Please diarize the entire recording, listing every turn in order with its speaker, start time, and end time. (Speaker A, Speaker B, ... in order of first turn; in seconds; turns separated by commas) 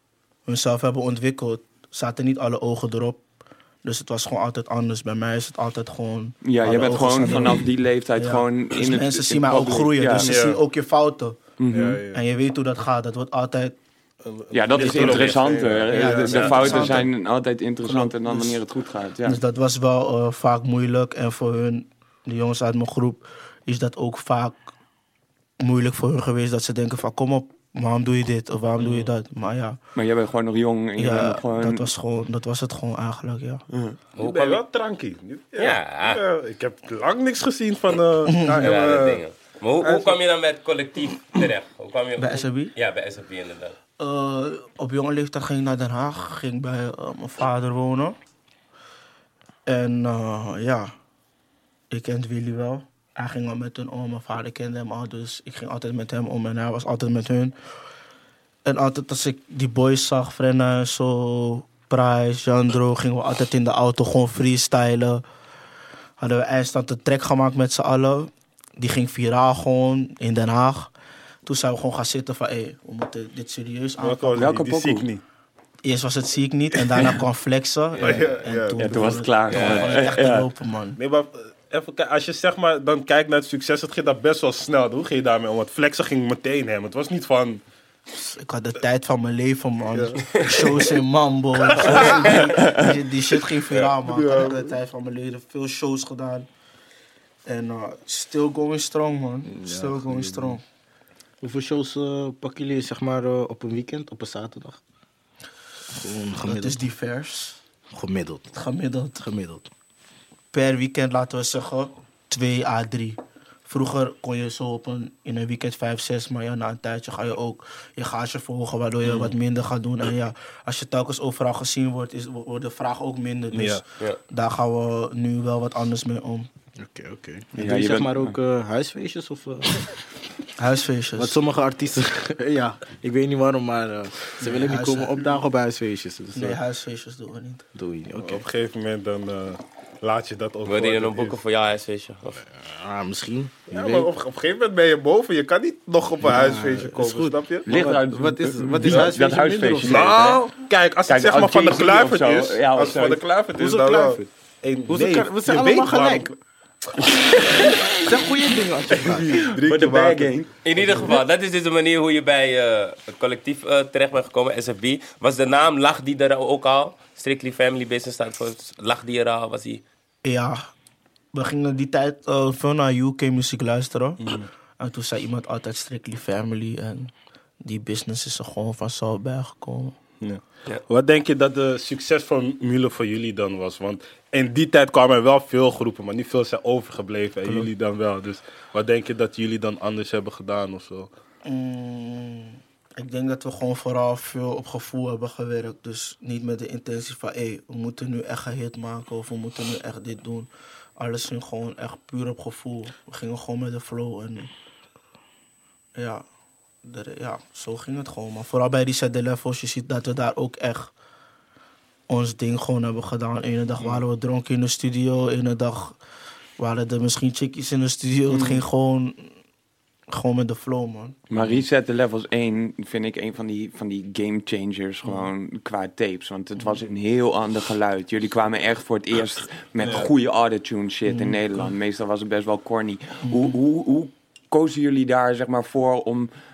Speaker A: 0.5-3.2, Speaker A: 3.8-7.7, Speaker B: 6.4-10.4, Speaker A: 8.2-11.5, Speaker C: 10.2-10.6, Speaker B: 11.6-12.0, Speaker C: 11.7-12.2, Speaker A: 12.1-13.8, Speaker C: 14.2-17.0, Speaker B: 14.5-19.4, Speaker A: 14.8-15.4, Speaker A: 15.9-17.1, Speaker A: 17.8-18.6, Speaker A: 19.2-24.7, Speaker A: 25.6-29.8, Speaker B: 28.8-29.1, Speaker B: 29.9-31.9, Speaker A: 31.0-33.6, Speaker B: 33.7-34.0, Speaker D: 34.2-34.6, Speaker C: 34.2-39.2, Speaker D: 35.6-36.2, Speaker A: 38.3-38.7, Speaker D: 38.6-43.8, Speaker C: 39.8-40.2, Speaker A: 42.2-42.7, Speaker A: 44.0-48.1, Speaker A: 49.6-50.9, Speaker A: 51.9-57.5, Speaker A: 58.6-65.2, Speaker A: 66.2-70.9, Speaker A: 71.4-74.5, Speaker C: 74.0-75.2, Speaker B: 74.3-75.1, Speaker A: 75.8-81.0, Speaker C: 78.0-79.6, Speaker B: 78.8-80.5, Speaker D: 79.5-80.0, Speaker C: 81.0-87.6, Speaker A: 88.1-96.5, Speaker C: 89.9-90.7, Speaker C: 91.7-92.4, Speaker B: 92.3-92.9, Speaker C: 93.7-94.7, Speaker A: 97.4-100.6, Speaker C: 99.5-100.2, Speaker E: 99.8-100.5, Speaker E: 101.4-104.8, Speaker E: 105.9-106.9, Speaker A: 106.4-107.6, Speaker E: 107.9-108.5, Speaker A: 108.5-109.2, Speaker E: 109.2-109.7, Speaker A: 110.5-126.5, Speaker C: 119.0-119.3, Speaker C: 123.5-123.8, Speaker E: 126.8-129.9, Speaker B: 127.5-128.3, Speaker A: 130.6-131.4, Speaker E: 131.2-136.6, Speaker A: 134.4-135.3, Speaker A: 136.3-137.6, Speaker E: 137.7-138.4, Speaker C: 138.2-141.4, Speaker D: 140.7-142.4, Speaker E: 142.5-144.1, Speaker C: 143.7-147.9, Speaker E: 146.2-150.2, Speaker B: 147.7-150.4, Speaker C: 148.8-149.1, Speaker C: 149.8-156.3, Speaker B: 151.1-153.2, Speaker E: 153.6-154.2, Speaker E: 154.9-156.3, Speaker E: 158.0-159.4, Speaker C: 158.9-160.3, Speaker B: 159.3-160.5, Speaker D: 160.6-169.8, Speaker A: 170.2-170.7, Speaker A: 171.3-174.2, Speaker C: 174.2-174.5, Speaker A: 174.8-179.9, Speaker C: 180.2-191.1, Speaker A: 191.4-204.5, Speaker A: 205.9-206.2, Speaker A: 206.8-210.9, Speaker A: 212.1-216.0, Speaker A: 216.6-219.2, Speaker C: 218.3-218.6, Speaker A: 220.1-221.2, Speaker B: 221.3-236.3, Speaker A: 225.0-225.3, Speaker C: 229.8-230.1, Speaker A: 231.1-231.7, Speaker A: 233.3-233.5